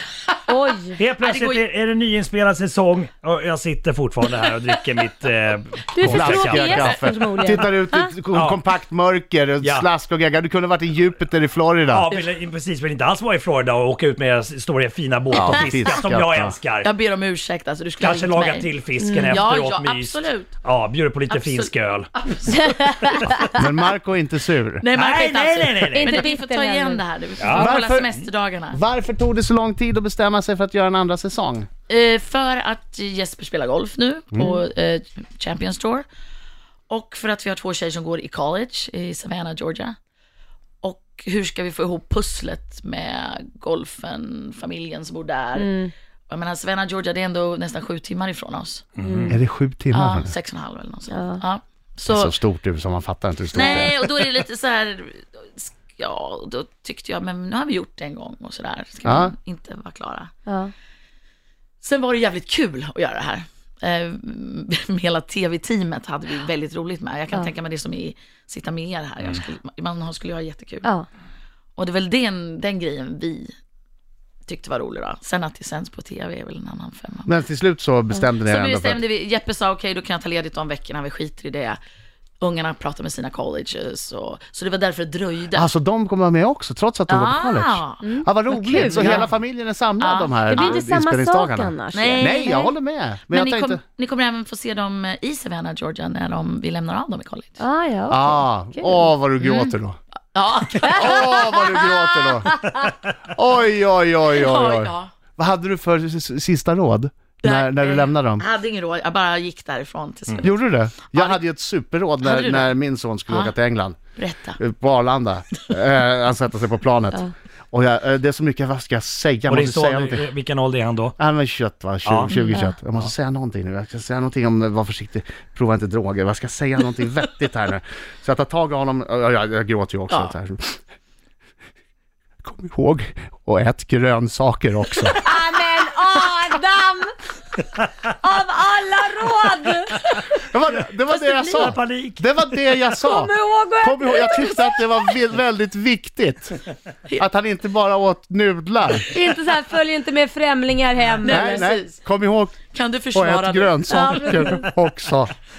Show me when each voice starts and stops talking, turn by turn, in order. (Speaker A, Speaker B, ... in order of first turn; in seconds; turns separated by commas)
Speaker A: 0.5-1.0, Speaker B: 1.0-6.8, Speaker C: 1.2-1.7, Speaker A: 5.9-8.1, Speaker D: 6.0-12.1, Speaker B: 8.3-8.6, Speaker B: 9.6-9.9, Speaker B: 11.9-16.9, Speaker D: 15.3-16.6, Speaker C: 15.4-15.8, Speaker C: 16.8-18.7, Speaker B: 18.0-22.1, Speaker A: 19.0-19.4, Speaker C: 19.2-20.5, Speaker C: 21.3-23.4, Speaker A: 22.6-23.6, Speaker B: 23.0-23.3, Speaker D: 23.5-24.8, Speaker C: 24.8-28.8, Speaker B: 24.9-26.2, Speaker A: 25.9-27.1, Speaker B: 27.4-27.8, Speaker D: 27.5-28.1, Speaker D: 28.7-31.7, Speaker C: 31.9-36.0, Speaker C: 36.9-39.9, Speaker C: 40.8-45.8, Speaker A: 45.5-45.9, Speaker C: 46.3-48.9, Speaker B: 49.0-49.4, Speaker A: 49.0-49.4, Speaker D: 49.3-50.3, Speaker C: 49.9-52.4, Speaker A: 51.1-51.4, Speaker D: 52.1-54.1, Speaker C: 53.5-60.3, Speaker D: 59.0-59.3, Speaker A: 60.5-60.7, Speaker C: 61.8-70.8, Speaker C: 71.8-73.5, Speaker C: 74.5-77.4, Speaker D: 77.2-79.0, Speaker C: 78.4-81.8, Speaker C: 82.4-85.7, Speaker D: 85.5-93.8, Speaker C: 87.1-88.0, Speaker A: 88.0-89.1, Speaker C: 88.8-89.3, Speaker C: 90.0-90.8, Speaker A: 90.4-92.7, Speaker C: 91.9-92.6, Speaker C: 93.3-97.6, Speaker A: 97.6-99.1, Speaker D: 98.1-100.0, Speaker C: 99.4-99.7, Speaker C: 100.3-101.9, Speaker A: 100.8-101.2, Speaker D: 100.8-102.6, Speaker A: 102.4-102.9, Speaker D: 103.3-108.4, Speaker C: 104.3-105.1, Speaker C: 107.4-111.4, Speaker D: 110.4-114.0, Speaker C: 112.2-112.8, Speaker C: 113.3-113.5, Speaker C: 114.2-114.6, Speaker D: 114.6-120.3, Speaker B: 119.5-121.1, Speaker D: 121.2-130.8, Speaker B: 122.0-122.3, Speaker C: 122.3-122.6, Speaker A: 122.5-122.7, Speaker D: 132.4-135.2, Speaker A: 135.1-137.1, Speaker A: 138.2-140.4, Speaker D: 140.5-146.6, Speaker B: 140.9-142.8, Speaker A: 141.5-141.8, Speaker A: 143.0-145.2, Speaker D: 147.2-149.1, Speaker A: 149.1-151.7, Speaker C: 151.1-152.0, Speaker D: 151.2-152.6, Speaker C: 152.7-154.4, Speaker D: 153.1-155.3, Speaker A: 153.9-154.7